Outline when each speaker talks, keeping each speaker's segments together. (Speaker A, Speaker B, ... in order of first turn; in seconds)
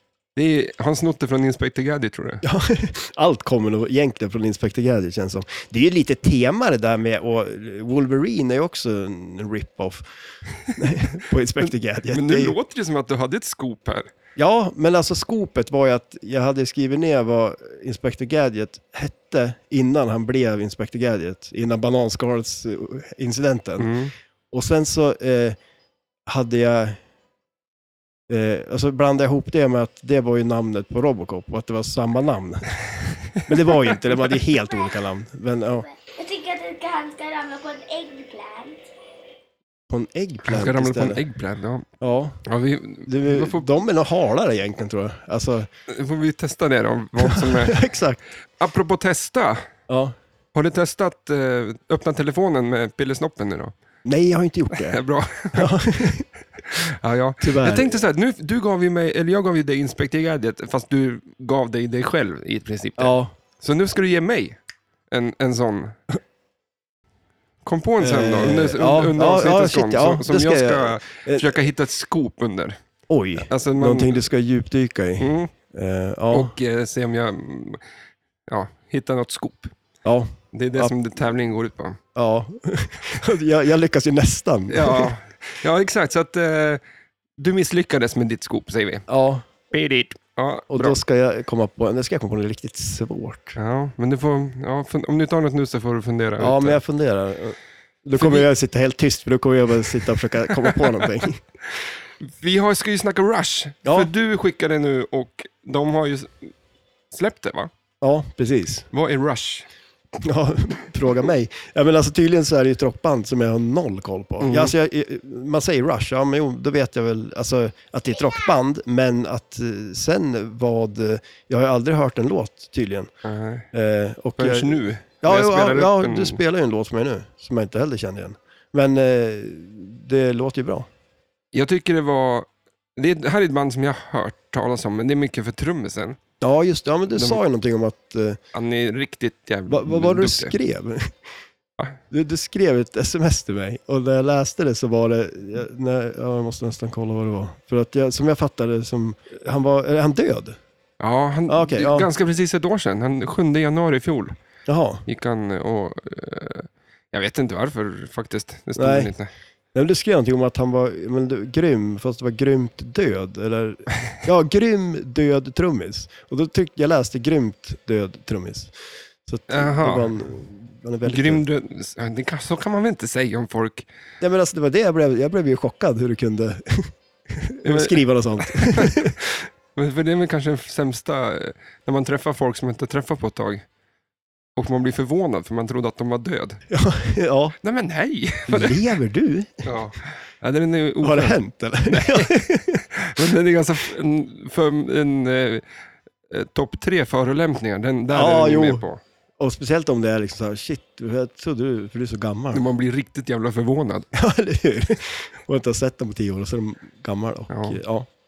Speaker A: 0.3-2.4, 10.7-10.9, 11.6-14.1, 23.8-24.1, 40.4-41.9, 42.4-43.7, 45.9-47.8, 48.6-49.6, 50.5-53.7, 54.7-55.8, 56.6-64.6, 65.1-66.0, 67.6-72.8, 73.4-74.2, 75.2-75.5, 76.3-77.8, 78.5-79.7, 80.5-82.0, 84.7-86.8, 87.4-89.0, 89.7-91.0, 93.5-96.8, 98.2-98.5, 102.2-106.5, 107.1-107.7, 108.9-109.7, 114.4-114.7, 123.2-123.7, 124.4-126.4, 131.5-136.2, 137.1-137.4, 138.5-140.6, 151.0-154.3, 155.1-159.3, 169.5-170.1, 171.0-173.9, 177.6-183.6, 184.6-186.6, 187.6-188.9, 189.6-195.6, 196.3-199.0, 202.5-204.1, 207.5-207.8
Speaker B: 2.4-10.0, 10.8-12.6, 14.3-23.9, 24.5-25.6, 26.3-27.0, 28.3-32.7, 33.5-35.9, 39.9-41.2, 42.0-42.4, 43.0-45.7, 47.2-48.2, 49.9-50.1, 54.0-55.0, 55.5-56.2, 57.4-57.9, 63.0-63.3, 68.0-71.5, 73.1-76.5, 80.0-80.9, 82.1-85.1, 89.1-89.5, 90.7-93.5, 96.4-101.4, 103.8-104.1, 108.0-108.9, 110.2-123.1, 123.7-130.9, 136.4-138.4, 139.7-141.1, 142.1-150.6, 151.5-152.1, 154.7-155.0, 158.8-159.1, 159.7-168.7, 169.2-171.4, 174.2-179.2, 186.7-187.6, 188.5-189.7, 191.0-192.8, 198.1-198.8, 199.4-202.6, 204.1-208.1
Speaker C: 35.9-38.8